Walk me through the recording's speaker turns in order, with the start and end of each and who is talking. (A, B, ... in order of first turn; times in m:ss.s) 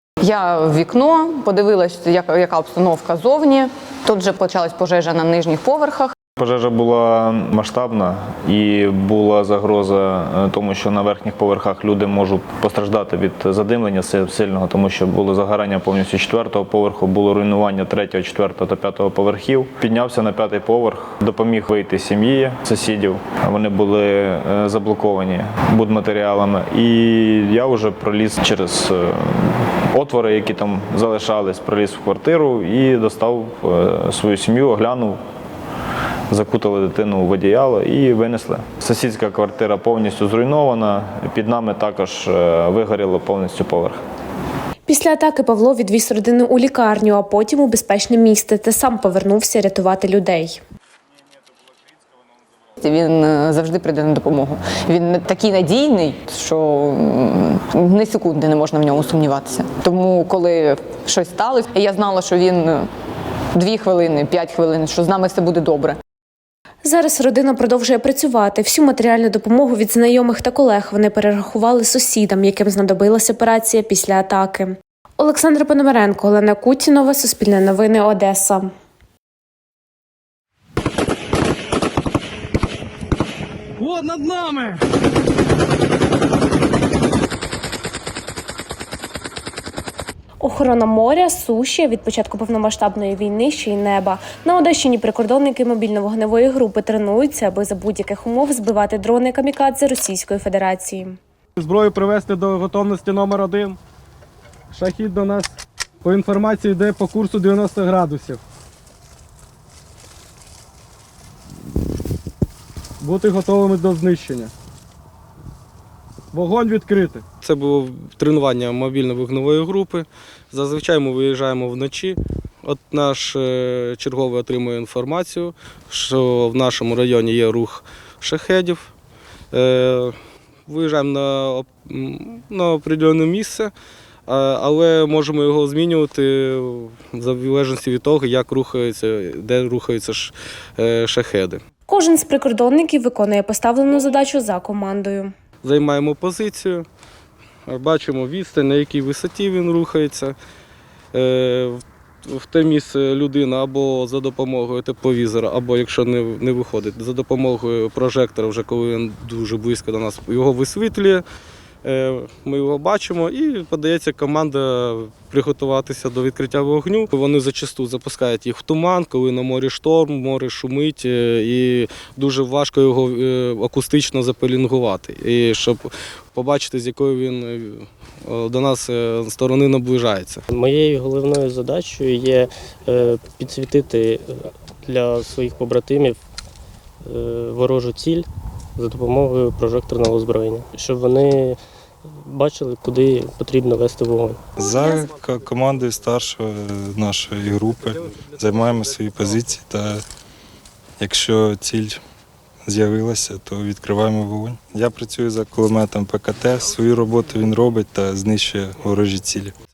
0:00.2-0:06.1 A
0:06.4-0:35.2 B
0:36.3-0:44.0 B
0:44.8-0:50.6 C
0:52.8-1:02.8 A
1:03.6-1:06.0 A
1:06.8-1:18.7 C
1:23.8-1:24.8 D
1:30.4-1:41.2 C
1:41.6-1:43.8 D
1:44.7-1:48.4 D
1:53.0-1:54.5 D
1:56.3-2:08.8 D
2:09.5-2:10.1 D
2:10.7-2:13.7 D
2:14.3-2:21.6 D
2:21.9-2:25.3 C
2:25.6-2:26.8 D
2:27.7-2:30.3 D
2:31.1-2:41.2 D
2:41.8-3:00.4 D
3:00.5-3:06.2 E
3:07.0-3:11.6 E
3:12.2-3:14.4 E
3:14.6-3:20.0 F
3:18.1-3:19.4 D
3:21.0-3:22.0 F
3:22.6-3:29.5 F